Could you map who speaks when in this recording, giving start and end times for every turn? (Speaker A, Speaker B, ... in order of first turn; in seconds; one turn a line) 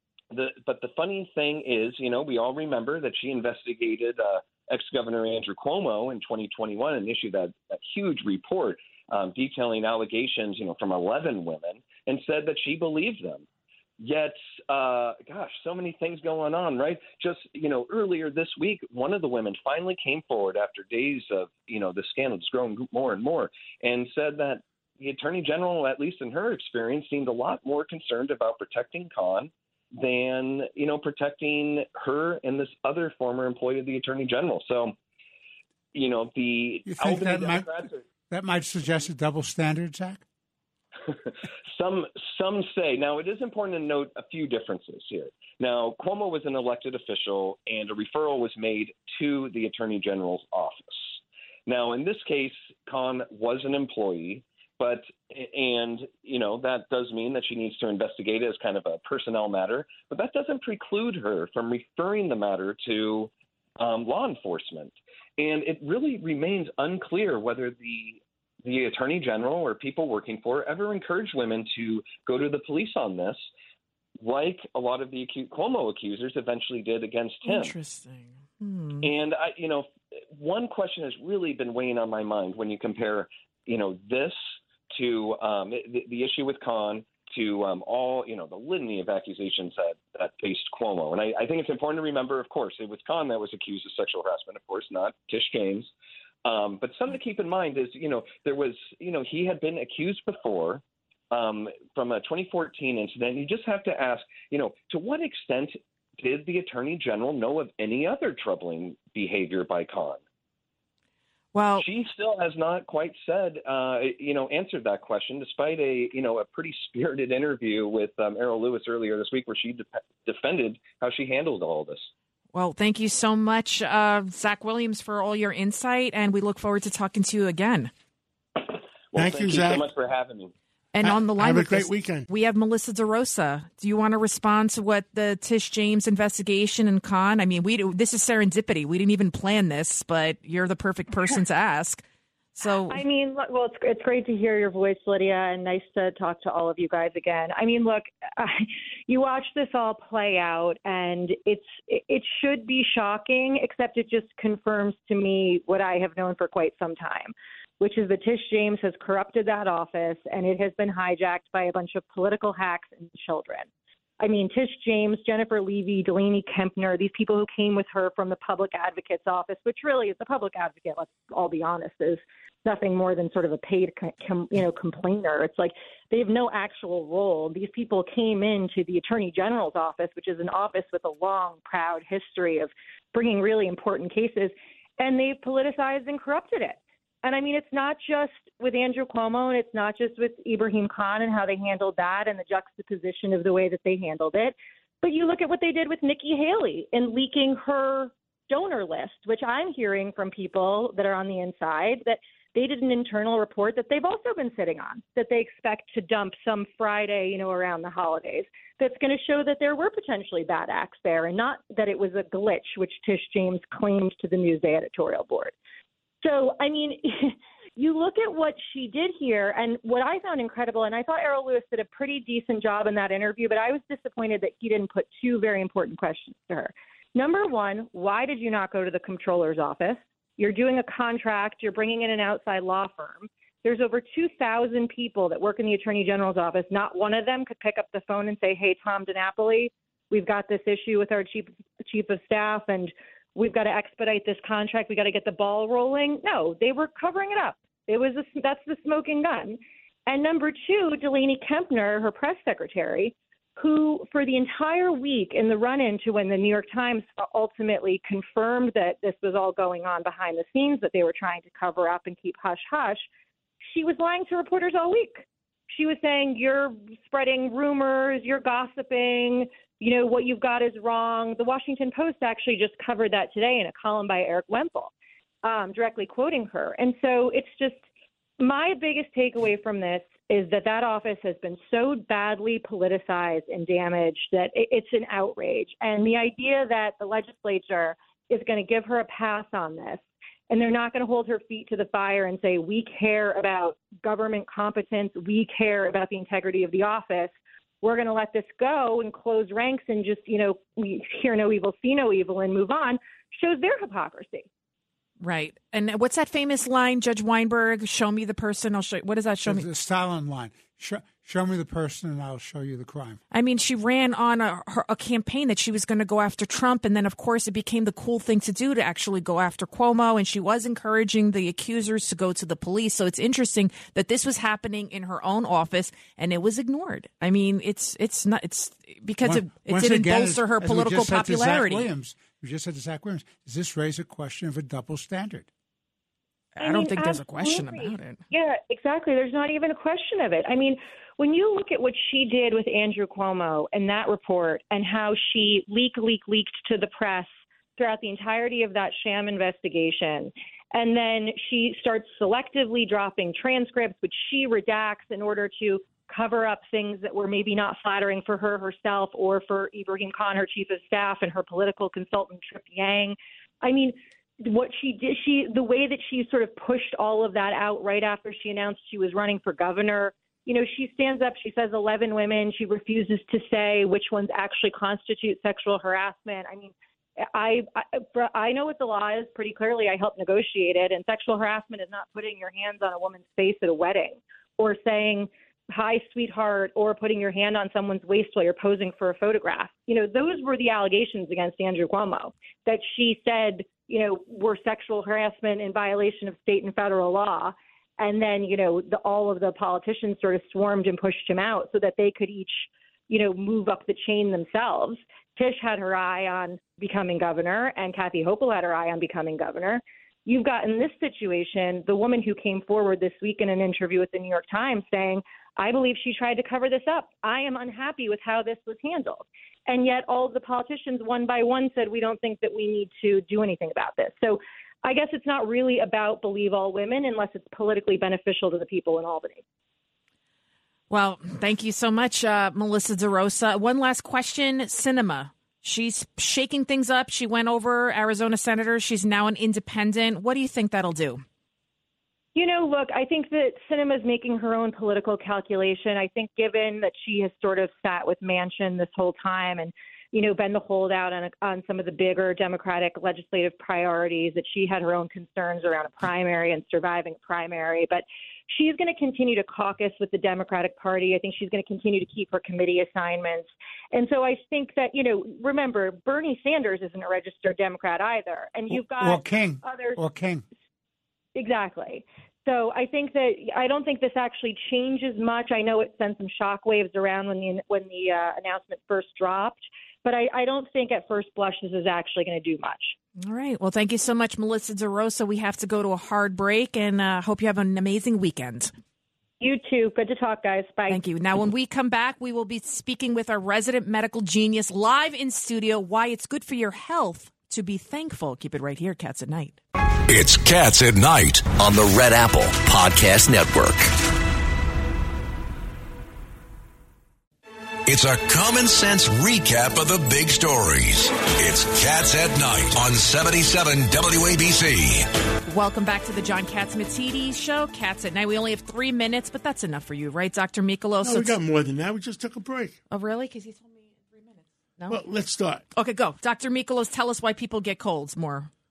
Speaker A: 0.3-13.4
Speaker A: 14.0-35.0
Speaker A: 35.9-38.0
Speaker B: 36.9-40.2
Speaker A: 41.3-73.5
Speaker A: 74.2-77.7
Speaker C: 77.4-79.1
Speaker A: 79.0-84.4
Speaker A: 84.9-95.9
Speaker A: 96.4-110.2
Speaker C: 111.5-111.8
Speaker A: 111.8-122.1
Speaker C: 122.5-127.9
Speaker A: 129.1-130.5
Speaker D: 129.1-129.9
Speaker C: 130.9-142.0
Speaker D: 131.0-132.3
Speaker C: 142.6-143.0
Speaker E: 142.6-163.7
Speaker E: 164.2-215.5
Speaker E: 216.2-263.1
Speaker E: 263.6-274.9
Speaker E: 275.4-277.8
Speaker E: 278.4-304.4
Speaker C: 305.2-309.7
Speaker B: 309.4-313.2
Speaker C: 313.3-331.9
Speaker B: 329.2-335.5
Speaker C: 336.6-338.2
Speaker E: 336.6-429.4
Speaker C: 430.9-441.2
Speaker E: 442.3-470.0
Speaker B: 468.7-470.4
Speaker E: 471.3-482.9
Speaker C: 483.2-488.7
Speaker E: 489.4-491.0
Speaker C: 490.9-499.6
Speaker F: 500.1-501.6
Speaker G: 501.6-503.9
Speaker F: 507.9-515.1
Speaker C: 515.5-521.4
Speaker D: 521.0-522.8
Speaker C: 522.9-525.0
Speaker D: 524.9-525.6
Speaker C: 525.7-528.5